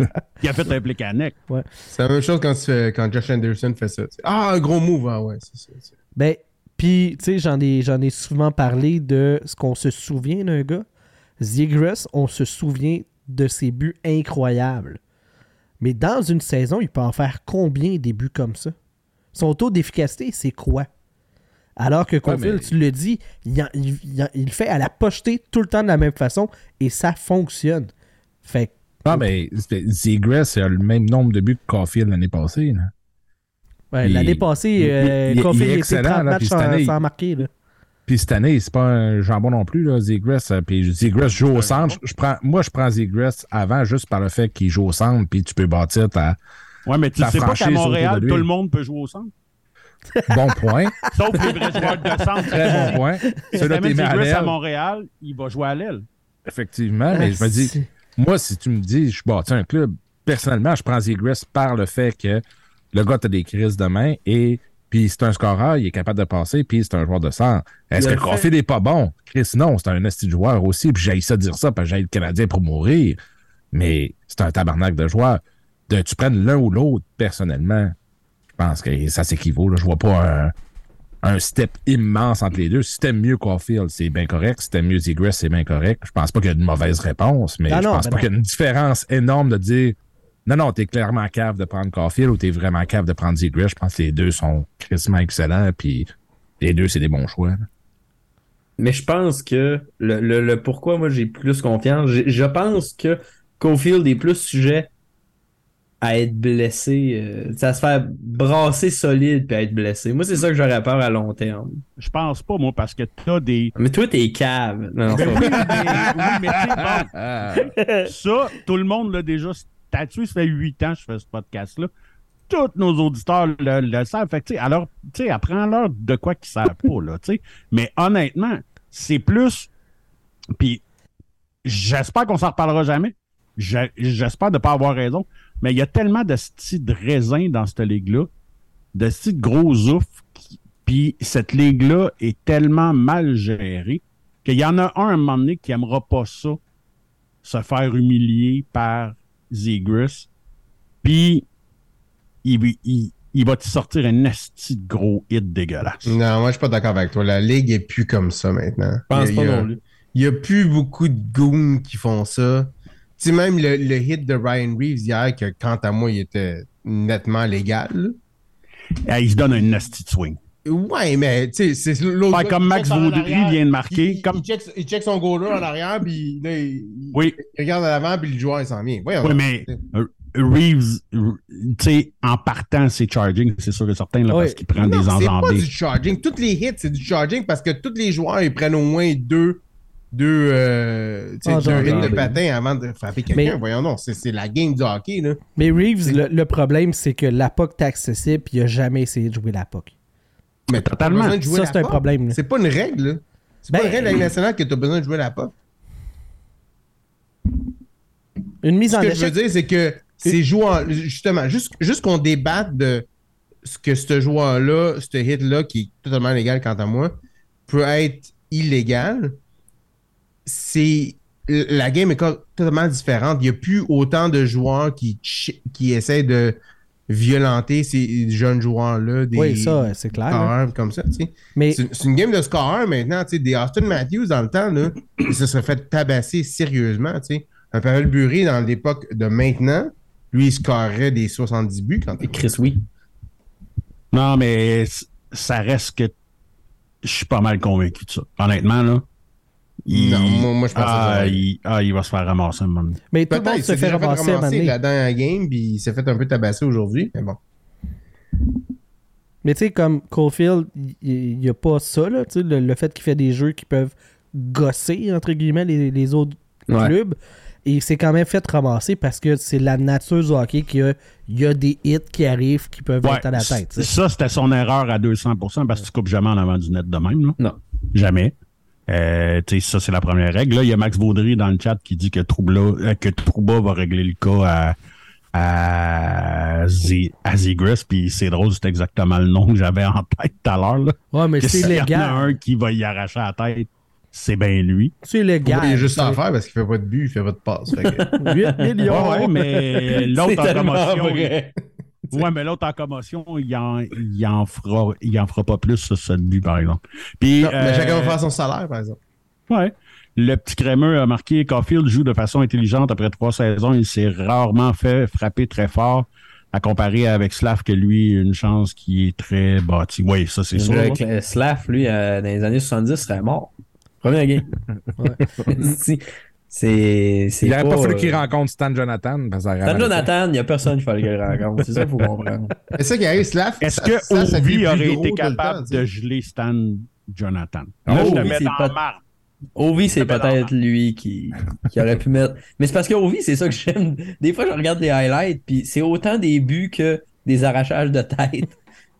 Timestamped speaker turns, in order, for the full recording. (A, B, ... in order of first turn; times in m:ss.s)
0:00.4-0:01.4 A
0:01.9-0:05.9 B
0:06.2-0:10.9 C
0:11.4-0:15.0 C
0:15.8-0:18.7 C
0:19.3-0:20.9 C
0:21.8-0:27.9 C
0:22.2-0:22.7 D
0:28.4-0:29.3 C
0:29.1-0:32.9 D
0:33.9-0:37.5 C
0:34.0-0:37.0 D
0:38.1-0:46.4 D
0:41.4-0:42.0 A
0:46.9-0:49.3 A
0:47.2-0:48.5 D
0:50.3-0:51.0 D
0:51.0-0:53.4 C
0:51.1-0:56.1 A
0:52.4-0:54.6 D
0:56.4-1:13.2 D
0:57.1-0:57.9 C
1:08.0-1:08.5 E
1:13.7-1:18.0 D
1:18.6-1:20.5 D
1:21.2-1:37.7 D
1:27.7-1:28.3 C
1:38.8-1:44.9 E
1:46.0-1:51.8 E
1:52.0-1:53.7 A
1:53.8-1:56.1 E
1:55.1-1:57.2 A
1:56.1-1:57.7 D
1:58.0-2:01.9 A
2:02.5-2:09.7 A
2:11.6-2:18.3 A
2:19.0-2:26.6 A
2:27.4-2:30.3 A
2:31.0-2:31.4 A
2:32.4-2:36.1 A
2:36.0-2:48.2 B
2:39.1-2:39.8 E
2:49.0-2:50.4 A
2:50.7-2:59.8 B
2:52.3-2:54.4 A
2:57.1-2:57.4 A
2:59.2-3:05.7 A
3:04.3-3:04.6 C
3:04.8-3:15.4 B
3:11.4-3:12.2 C
3:11.6-3:12.3 E
3:15.6-3:19.9 C
3:20.7-3:25.5 B
3:20.7-3:21.4 A
3:21.4-3:22.4 C
3:23.7-3:24.2 C
3:28.6-3:29.4 C
3:28.9-3:33.1 B
3:33.6-3:37.1 B
3:37.7-3:39.4 B
3:40.4-3:46.6 B
3:47.1-4:02.4 B
3:49.4-3:50.6 C
3:51.6-3:51.8 C
4:02.3-4:02.8 E
4:04.1-4:06.1 A
4:07.0-4:09.0 A
4:09.9-4:13.0 A
4:09.9-4:11.4 B
4:13.1-4:14.7 C
4:13.3-4:17.4 B
4:19.4-4:33.9 C
4:26.7-4:27.0 E
4:33.0-4:37.4 A
4:37.9-4:38.3 A
4:38.9-4:44.7 A
4:45.3-4:55.0 A
4:51.1-4:52.4 C
4:55.0-4:56.2 C
4:55.4-4:58.1 B
4:57.8-5:01.5 E
4:58.2-4:59.3 C
4:58.6-5:01.3 A
5:02.1-5:08.2 A
5:07.4-5:09.0 B
5:09.5-5:21.0 A
5:20.6-5:24.5 E
5:25.0-5:25.6 C
5:25.5-5:28.2 E
5:27.4-5:30.1 D
5:29.6-5:32.7 E
5:32.8-5:35.9 B
5:33.6-5:39.0 A
5:37.9-5:38.4 D
5:37.9-5:38.8 E
5:39.6-5:48.6 E
5:40.0-5:40.5 A